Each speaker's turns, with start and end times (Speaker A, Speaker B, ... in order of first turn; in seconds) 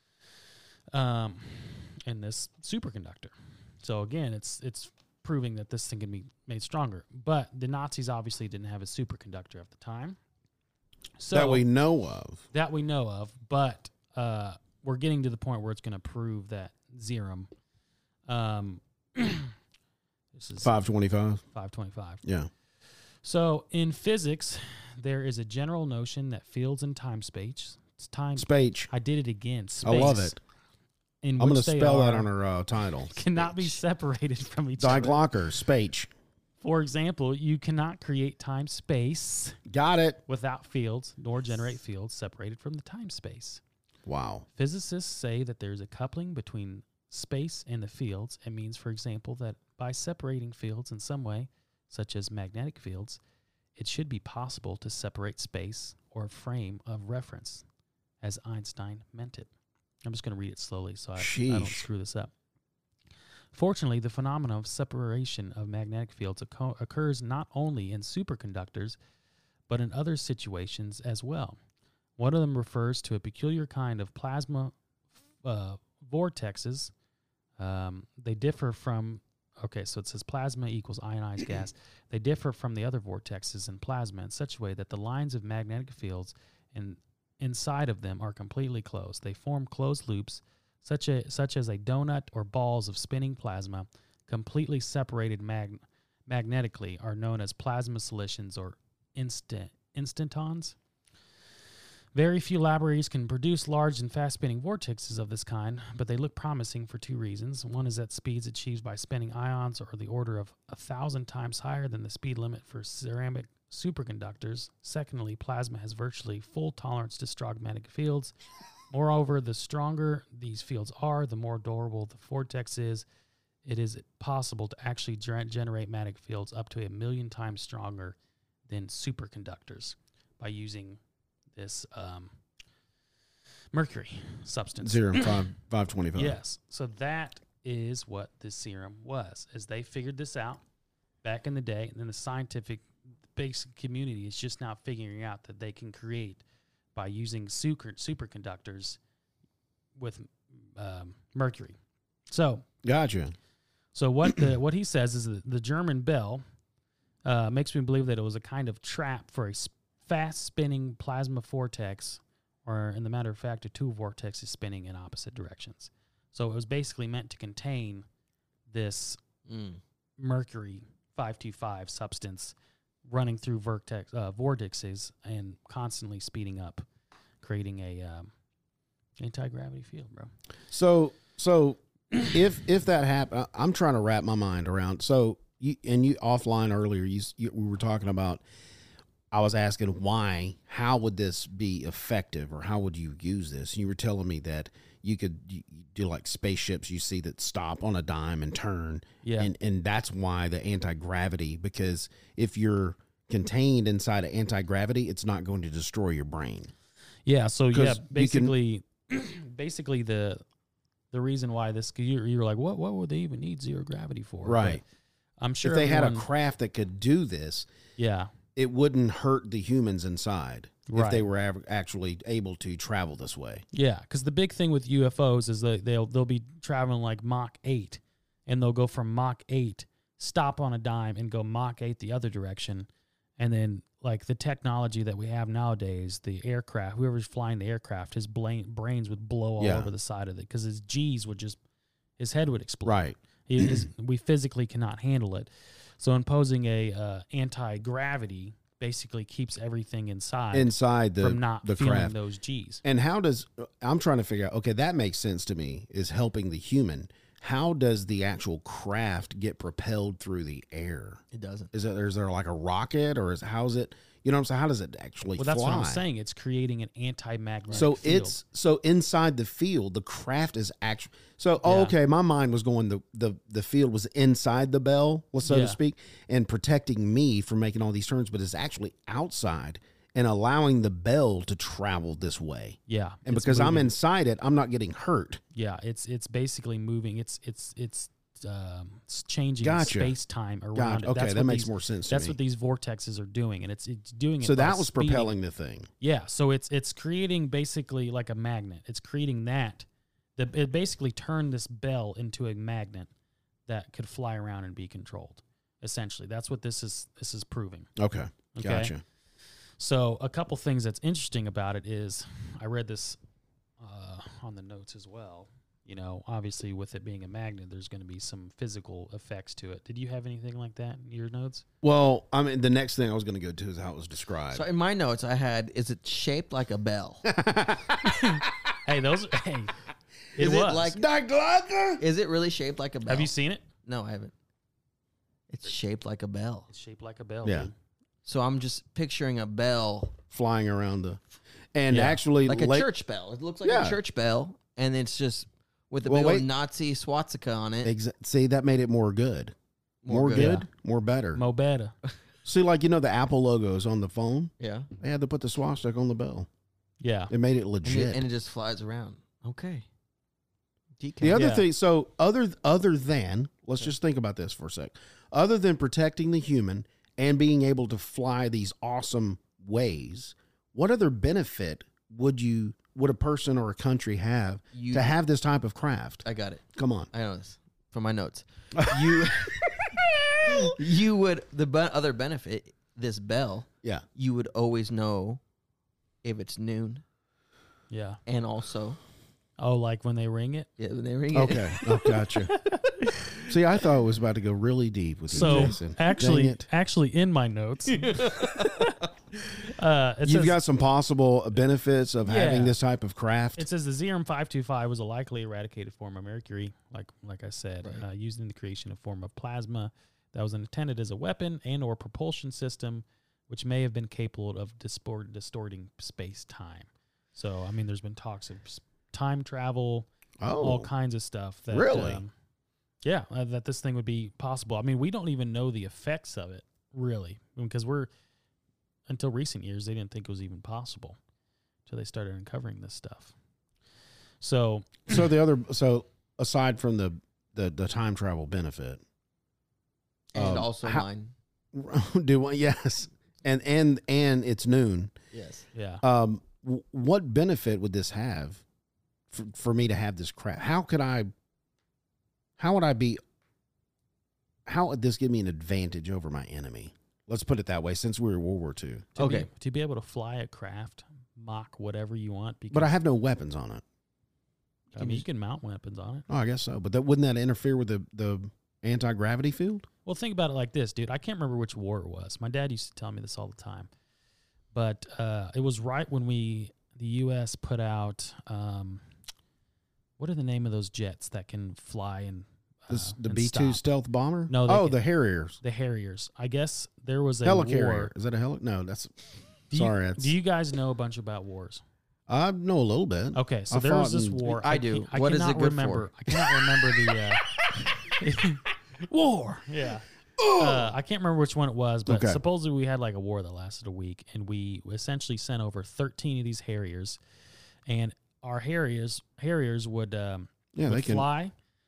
Speaker A: 0.9-10.2, 11.2-11.7, 12.5-17.5, 18.3-19.5, 20.3-20.7, 21.5-22.2, 23.2-30.4, 31.2-32.3, 33.1-35.3, 36.6-39.6, 40.3-43.6, 44.5-53.2, 53.8-57.6, 58.2-59.5, 60.0-62.3, 63.5-69.0, 69.7-71.6, 72.2-74.8, 75.4-76.9, 77.6-100.8, 102.2-118.3, 118.9-123.0, 123.7-128.2, 128.7-131.0, 131.6-132.3, 133.7-135.4, 136.2-140.6, 141.2-146.4, 146.9-149.0, 150.0-151.8, 152.3-152.7, 153.9-156.4, 157.2-168.1, 168.7-169.2, 170.2-176.9, 177.4-178.3, 179.2-180.3, 199.2-199.5, 207.3-210.4, 211.1-214.8, 215.4-216.3, 218.0-218.3, 220.9-221.3, 223.7-241.6, 242.2-252.8, 265.4-268.4, 271.6-271.9, 275.4-275.8, 282.9-283.9, 285.5-295.3, 296.0-299.9, 300.4-303.1, 303.7-307.9, 308.5-308.9, 309.8-313.2, 313.8-321.6, 328.0-329.8, 330.4-330.9, 333.1-333.6, 336.7-337.7, 341.9-342.2, 350.3-350.7, 351.4-351.9, 357.0-357.3, 361.3-361.7, 387.9-388.2, 389.6-390.7, 395.3-399.0, 399.6-400.6, 402.2-402.8, 403.6-422.3, 423.0-428.1, 429.1-431.2, 431.9-433.4, 434.4-435.2, 445.7-446.0, 459.2-462.9, 464.9-466.3, 470.1-473.9, 474.7-479.0, 480.2-483.9, 484.5-485.0, 485.6-488.1, 489.7-491.8, 493.3-497.4, 498.2-507.2, 507.9-511.5
Speaker B: 11.3-12.5, 20.6-21.4, 22.2-22.5, 28.4-28.9, 29.8-30.4, 31.4-33.2, 34.8-36.1, 39.7-40.2, 44.1-44.5, 61.2-61.9, 134.8-136.4, 152.8-153.3, 180.7-188.4, 189.3-206.7, 207.7-208.5, 214.4-214.8, 215.6-217.7, 218.6-223.6, 239.6-239.9, 242.8-243.9, 250.5-252.2, 252.8-261.2, 261.7-266.1, 267.7-285.4, 289.6-290.1, 290.8-292.4, 294.4-295.9, 308.0-309.0, 321.8-324.7, 327.2-328.3, 330.7-332.0, 337.4-337.7, 340.3-341.2, 341.7-342.9, 343.6-344.0, 346.1-346.5, 347.8-349.6, 350.1-351.4, 352.4-356.5, 357.3-358.2, 361.2-376.2, 376.8-377.1, 378.7-380.8, 391.3-392.6, 393.4-396.6, 400.2-403.7, 420.4-420.9, 421.7-422.2, 435.1-439.0, 440.3-441.1, 441.7-445.2, 446.0-448.6, 449.3-451.3, 452.6-453.2, 454.7-459.4, 462.7-463.8, 464.9-465.2, 466.3-469.9, 482.9-485.6, 487.4-489.1, 489.7-490.3, 492.3-494.4, 500.4-500.9, 502.1-502.4, 510.7-511.3
Speaker C: 169.5-169.8, 261.3-261.7, 324.5-327.3, 330.4-331.1, 332.0-333.3, 333.8-334.3, 335.5-336.7, 338.2-340.2, 342.0-347.9, 350.0-350.6, 354.6-354.9, 357.8-359.9, 361.0-361.4, 374.7-375.1, 376.2-385.4, 386.2-387.0, 388.3-389.0, 390.8-393.2, 395.3-395.8, 398.0-398.9, 440.3-441.3, 445.3-445.7, 459.2-459.5, 494.4-496.1